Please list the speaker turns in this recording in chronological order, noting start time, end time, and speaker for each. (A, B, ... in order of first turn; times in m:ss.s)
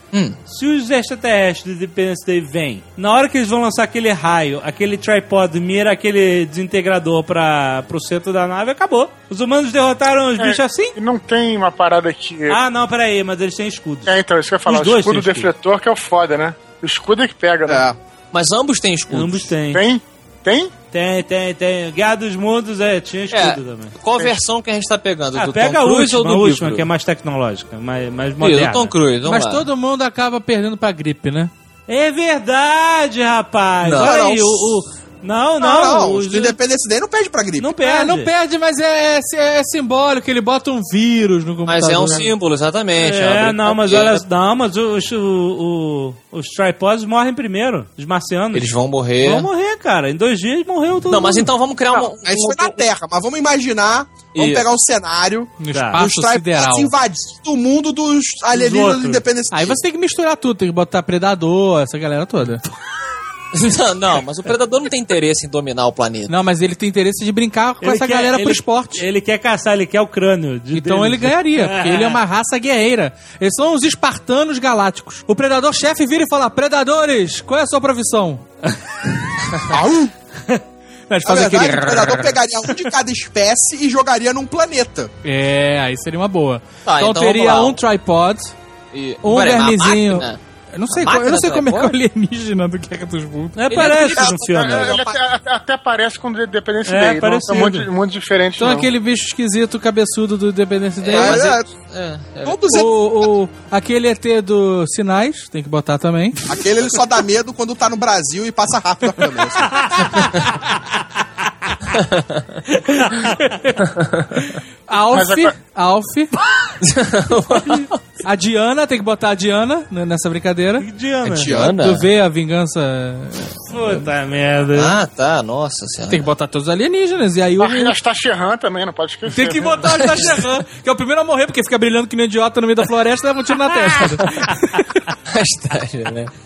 0:00.1-0:00.4 A
0:00.5-0:11.0 B
0:10.4-0:12.6 C
0:12.5-0:15.5 B
0:14.1-0:17.8 C
0:17.7-0:18.0 D
0:18.3-0:19.5 A
0:19.1-0:19.8 B
0:19.7-0:20.7 C
0:20.9-0:23.9 B
0:23.3-0:26.9 A
0:25.4-0:28.9 B
0:28.4-0:29.7 A
0:29.2-0:31.5 E
0:31.9-0:36.6 B
0:33.8-0:34.2 A
0:33.9-0:34.7 D
0:35.6-0:37.7 D
0:37.6-0:38.3 B
0:37.8-0:42.3 E
0:41.7-0:44.2 A
0:43.0-0:51.5 B
0:48.5-0:49.5 A
0:51.1-0:52.8 A
0:51.9-0:59.8 D
0:54.3-0:54.6 A
0:55.6-0:56.9 E
0:55.7-0:56.0 B
0:58.5-0:59.2 B
0:59.5-1:02.6 E
1:03.5-1:06.3 A
1:06.3-1:09.0 E
1:07.8-1:12.2 B
1:10.7-1:18.4 E
1:19.7-1:20.1 D
1:21.1-1:22.4 E
1:21.2-1:25.1 D
1:25.2-1:28.5 E
1:26.8-1:27.8 A
1:28.9-1:31.9 A
1:29.2-1:34.0 E
1:33.6-1:35.0 B
1:33.7-1:35.1 A
1:34.4-1:38.9 C
1:36.8-1:37.9 B
1:38.6-1:41.5 E
1:41.0-1:42.6 A
1:41.1-1:41.7 D
1:42.4-1:42.9 D
1:42.6-1:46.4 E
1:46.5-1:50.0 D
1:49.9-1:50.8 B
1:52.0-1:52.5 A
1:52.8-1:53.5 B
1:53.4-1:53.8 E
1:54.0-1:54.3 A
1:54.4-1:56.3 E
1:55.1-1:55.5 C
1:56.8-1:58.0 A
1:58.2-2:00.8 E
2:00.8-2:01.5 B
2:01.2-2:02.1 A
2:01.6-2:04.0 E
2:03.7-2:05.0 B
2:04.7-2:06.3 A
2:06.1-2:08.0 E
2:07.6-2:09.8 C
2:09.3-2:15.0 E
2:09.9-2:10.5 A
2:15.3-2:16.3 A